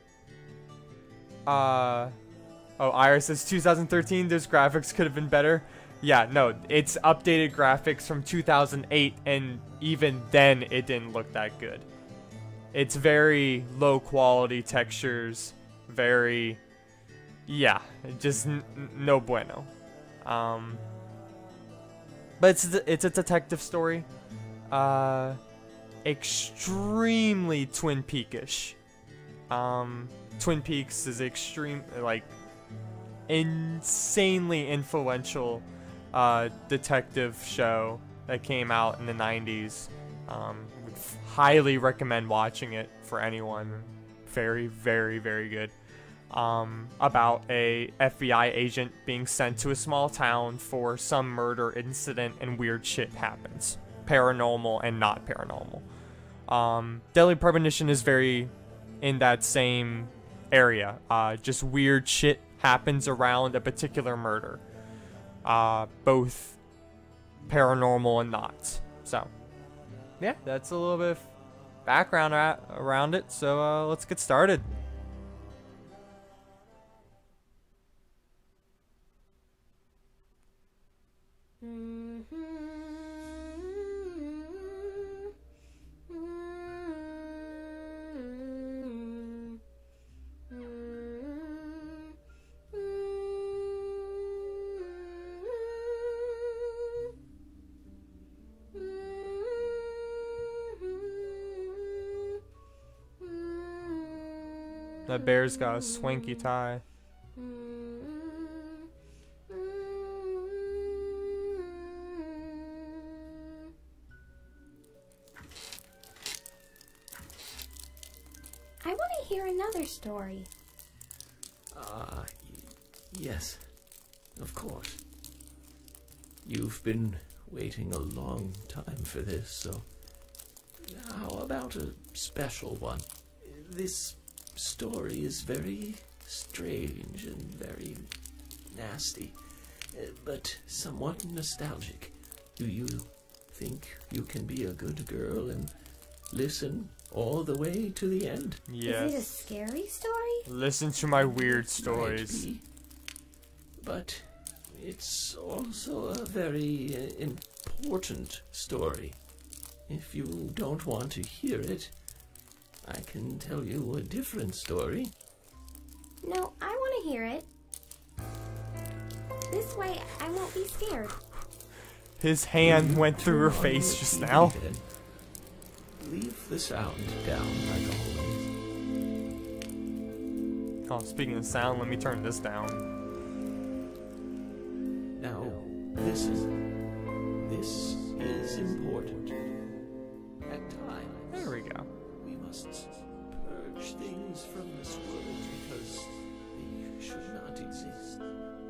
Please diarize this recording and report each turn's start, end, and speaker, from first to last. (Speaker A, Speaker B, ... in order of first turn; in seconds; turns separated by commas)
Speaker A: 1.4-2.2, Speaker A: 2.8-11.9, Speaker A: 12.7-16.6, Speaker A: 17.5-19.7, Speaker A: 20.2-20.8, Speaker A: 22.4-24.1, Speaker A: 24.7-25.4, Speaker A: 26.0-28.8, Speaker A: 29.5-32.3, Speaker A: 33.3-45.8, Speaker A: 46.3-55.9, Speaker A: 56.5-64.6, Speaker A: 65.4-66.6, Speaker A: 67.5-69.3, Speaker A: 70.2-71.3, Speaker A: 71.8-74.7, Speaker A: 105.1-106.8, Speaker B: 118.8-120.5, Speaker C: 121.7-123.8, Speaker C: 124.3-125.0, Speaker C: 126.4-129.9, Speaker C: 130.8-145.7, Speaker C: 146.3-148.6, Speaker A: 148.7-149.3, Speaker B: 148.8-150.5, Speaker A: 150.4-152.4, Speaker C: 151.4-152.6, Speaker C: 153.8-159.2, Speaker C: 159.9-161.9, Speaker C: 162.8-165.1, Speaker B: 166.2-167.5, Speaker B: 169.5-171.2, Speaker A: 172.2-174.6, Speaker C: 172.6-175.2, Speaker C: 176.0-178.4, Speaker A: 180.9-182.8, Speaker C: 185.2-186.6, Speaker C: 187.4-189.4, Speaker C: 190.4-191.6, Speaker A: 191.3-191.9, Speaker C: 192.2-198.3